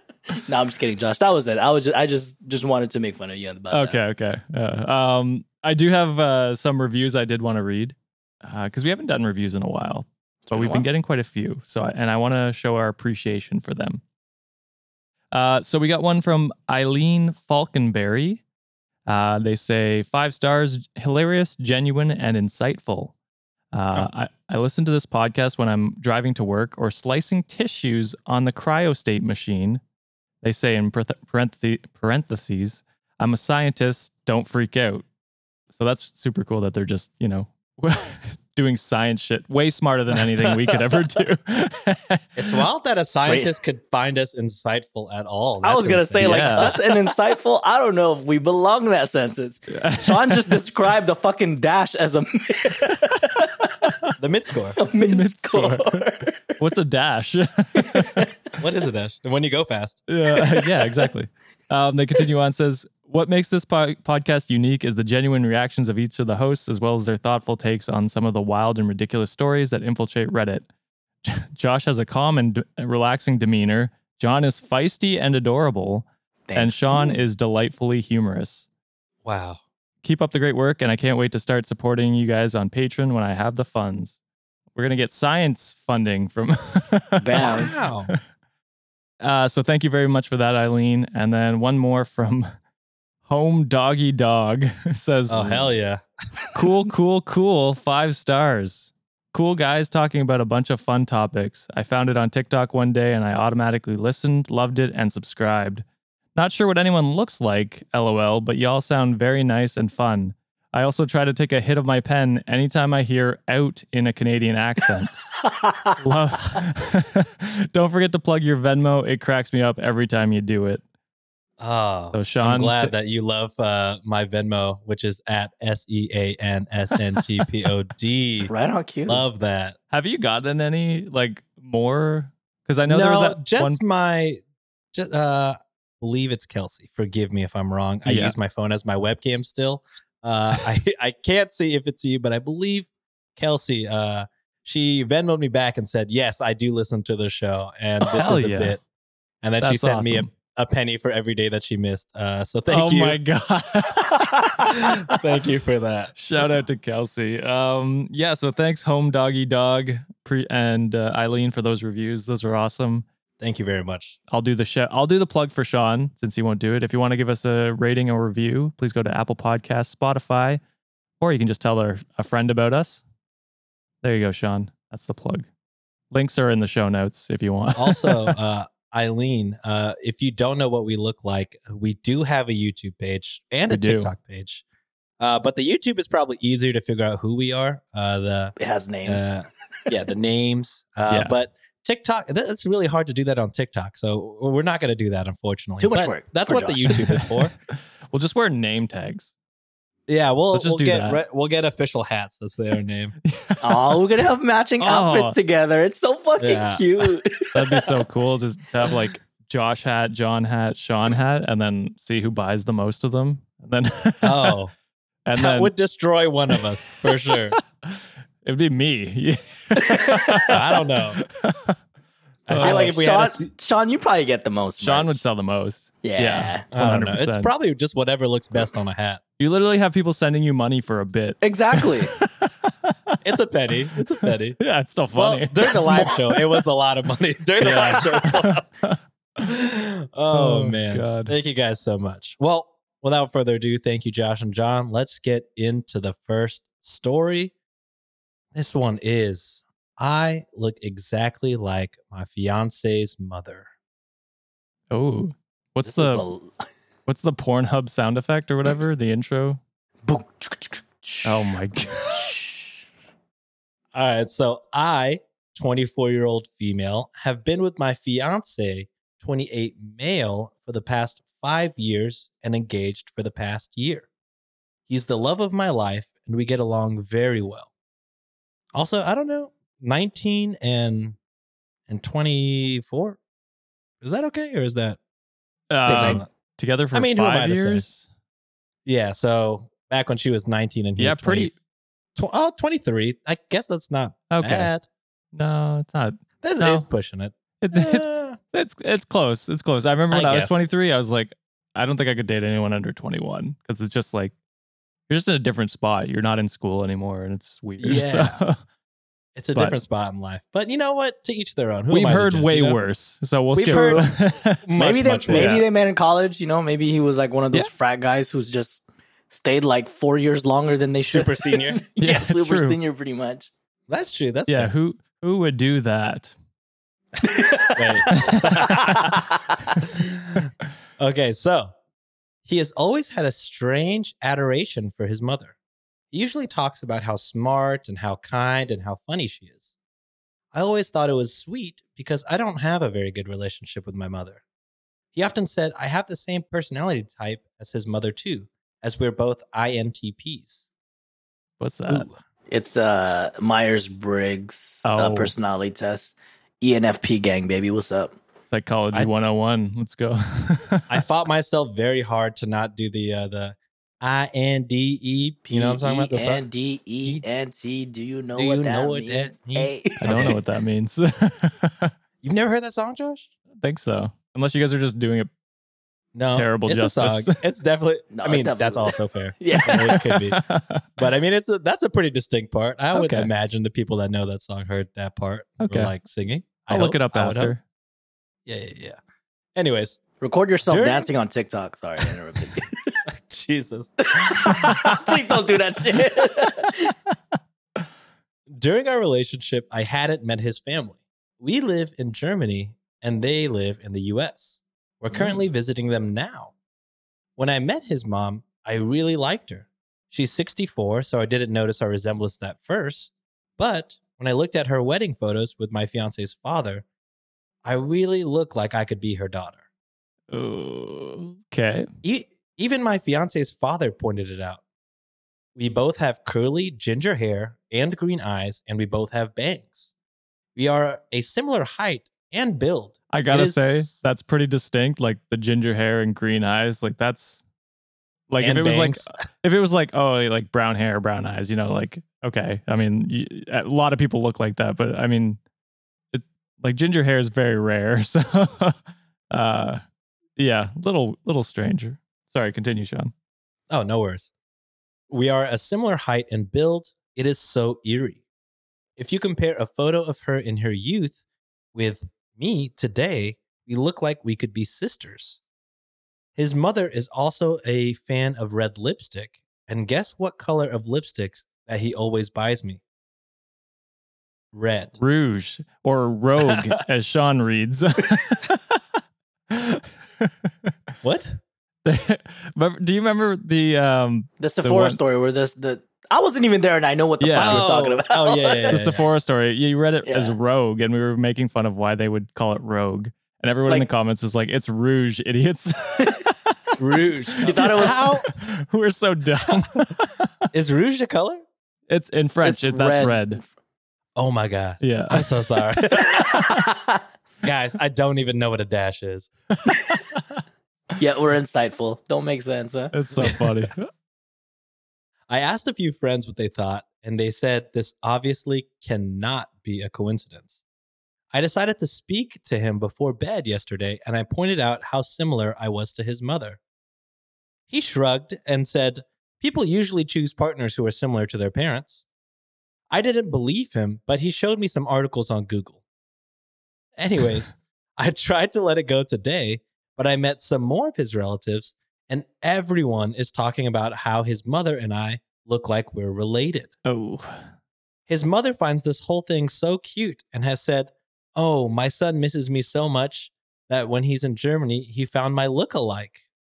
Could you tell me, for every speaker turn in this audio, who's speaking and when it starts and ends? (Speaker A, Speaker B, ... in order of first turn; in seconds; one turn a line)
Speaker A: 0.3-4.0
Speaker B: 3.7-14.0
Speaker A: 10.5-10.9
Speaker B: 15.3-18.4
Speaker B: 19.1-23.1
Speaker B: 23.7-29.8
Speaker B: 30.4-35.0
Speaker B: 35.7-42.5
Speaker C: 42.4-46.8
Speaker A: 43.1-43.5
Speaker A: 45.6-53.5
Speaker B: 46.2-46.8
Speaker B: 49.7-50.6
Speaker C: 54.2-54.8
Speaker A: 54.8-56.6
Speaker B: 55.0-56.0
Speaker B: 56.6-58.3
Speaker A: 57.8-58.3
Speaker C: 58.6-60.0
Speaker B: 60.1-70.7
Speaker A: 60.3-61.1
Speaker B: 71.2-78.7
Speaker A: 76.5-77.2
Speaker C: 79.2-79.6
Speaker B: 80.0-84.2
Speaker B: 84.8-88.2
Speaker A: 87.2-87.7
Speaker C: 87.4-88.2
Speaker B: 89.2-92.5
Speaker B: 93.2-95.7
Speaker C: 95.3-96.0
Speaker B: 96.5-115.3
Speaker A: 115.5-116.0
Speaker B: 116.0-120.8
Speaker C: 121.6-128.5
Speaker B: 122.1-122.9
Speaker A: 128.5-129.2
Speaker C: 129.1-129.8
Speaker B: 129.9-133.8
Speaker C: 132.9-134.4
Speaker C: 134.9-148.8
Speaker B: 138.1-138.3
Speaker B: 148.1-148.8
Speaker C: 149.4-153.2
Speaker B: 149.6-150.3
Speaker B: 152.7-154.9
Speaker C: 155.1-156.2
Speaker B: 156.2-163.1
Speaker C: 163.4-164.2
Speaker B: 164.3-170.6
Speaker B: 171.2-173.0
Speaker B: 174.0-175.5
Speaker B: 176.1-178.4
Speaker C: 177.8-184.6
Speaker B: 183.7-184.1
Speaker C: 185.2-197.5
Speaker A: 188.6-189.4
Speaker B: 191.1-191.4
Speaker A: 195.8-197.0
Speaker B: 196.9-197.5
Speaker B: 198.1-199.3
Speaker C: 200.1-203.2
Speaker B: 200.5-201.2
Speaker B: 203.3-204.2
Speaker A: 203.6-207.9
Speaker B: 204.8-205.4
Speaker C: 206.4-206.8
Speaker B: 207.5-214.6
Speaker C: 214.2-214.7
Speaker B: 215.3-215.7
Speaker C: 215.4-217.6
Speaker B: 217.3-221.8
Speaker A: 219.8-220.5
Speaker C: 220.5-221.2
Speaker C: 222.5-223.5
Speaker B: 222.5-222.9
Speaker A: 222.6-225.2
Speaker B: 224.8-227.5
Speaker A: 226.0-226.7
Speaker C: 226.7-229.2
Speaker B: 229.4-233.2
Speaker A: 231.4-232.1
Speaker C: 233.2-234.6
Speaker B: 234.0-236.4
Speaker C: 235.1-238.7
Speaker B: 237.6-239.0
Speaker C: 239.4-247.5
Speaker B: 240.3-241.3
Speaker C: 248.5-253.7
Speaker B: 254.9-256.3
Speaker A: 255.8-256.7
Speaker B: 257.1-259.6
Speaker A: 260.1-262.7
Speaker B: 261.2-262.3
Speaker C: 263.9-274.1
Speaker C: 274.9-277.7
Speaker C: 278.8-281.2
Speaker C: 281.9-283.2
Speaker C: 284.0-285.0
Speaker B: 285.7-288.1
Speaker C: 285.9-286.3
Speaker A: 285.9-286.2
Speaker C: 286.9-287.9
Speaker C: 288.9-291.5
Speaker B: 291.0-291.5
Speaker C: 292.2-294.9
Speaker B: 294.3-294.7
Speaker B: 295.3-296.9
Speaker C: 296.4-298.4
Speaker B: 297.6-304.3
Speaker C: 300.1-300.6
Speaker B: 305.1-308.6
Speaker C: 307.8-308.4
Speaker C: 309.4-312.8
Speaker B: 311.9-314.6
Speaker C: 313.6-315.6
Speaker A: 313.7-314.1
Speaker A: 314.8-323.5
Speaker B: 315.3-315.7
Speaker C: 321.0-321.8
Speaker B: 322.0-322.8
Speaker C: 323.9-324.7
Speaker B: 324.5-326.3
Speaker A: 327.2-329.7
Speaker C: 327.8-329.1
Speaker B: 328.2-328.6
Speaker C: 329.8-331.8
Speaker C: 332.5-335.6
Speaker C: 336.1-339.7
Speaker C: 340.5-344.4
Speaker C: 345.1-350.7
Speaker B: 351.6-352.1
Speaker C: 351.9-352.1
Speaker A: 352.5-358.2
Speaker B: 354.9-355.3
Speaker B: 358.5-360.9
Speaker C: 360.9-366.5
Speaker A: 365.4-370.4
Speaker C: 368.4-370.4
Speaker B: 370.0-371.9
Speaker C: 372.2-373.3
Speaker B: 373.6-375.3
Speaker C: 376.1-380.4
Speaker B: 376.3-377.4
Speaker A: 378.1-380.0
Speaker B: 379.6-380.8
Speaker C: 381.0-387.6
Speaker B: 382.9-383.3
Speaker B: 385.6-385.9
Speaker B: 386.7-387.6
Speaker C: 388.5-389.0
Speaker C: 389.6-390.0
Speaker A: 390.2-393.0
Speaker C: 390.7-391.1
Speaker C: 393.1-394.8
Speaker A: 394.0-396.9
Speaker C: 398.5-406.5
Speaker B: 405.1-405.4
Speaker C: 407.4-416.9
Speaker C: 417.6-419.6
Speaker B: 420.3-421.9
Speaker C: 422.0-424.6
Speaker C: 425.6-429.9
Speaker C: 430.6-434.0
Speaker B: 433.1-437.4
Speaker B: 438.3-445.4
Speaker C: 438.4-439.0
Speaker B: 446.1-448.8
Speaker B: 449.3-449.8
Speaker B: 450.4-453.1
Speaker C: 453.7-454.3
Speaker C: 455.1-458.2
Speaker C: 459.0-461.2
Speaker C: 461.7-465.4
Speaker C: 466.4-472.8
Speaker C: 474.5-475.0
Speaker B: 475.0-478.8
Speaker C: 476.4-476.7
Speaker B: 479.5-480.7
Speaker C: 481.0-481.4
Speaker B: 481.9-485.0
Speaker A: 484.4-488.8
Speaker B: 487.2-487.6
Speaker C: 487.4-489.0
Speaker B: 488.7-496.3
Speaker A: 490.1-490.4
Speaker A: 496.0-496.2
Speaker C: 496.8-498.3
Speaker B: 497.4-500.3
Speaker A: 497.4-498.0
Speaker C: 500.5-501.4
Speaker B: 501.9-503.4
Speaker A: 502.4-503.5
Speaker C: 504.2-506.3
Speaker B: 504.8-505.4
Speaker A: 505.9-507.0
Speaker C: 507.4-509.3
Speaker A: 511.0-513.0
Speaker B: 512.9-513.9
Speaker C: 515.3-520.6
Speaker C: 521.3-526.6
Speaker C: 527.7-532.0
Speaker C: 532.9-535.8
Speaker C: 537.0-546.7
Speaker B: 546.9-547.5
Speaker C: 548.1-556.2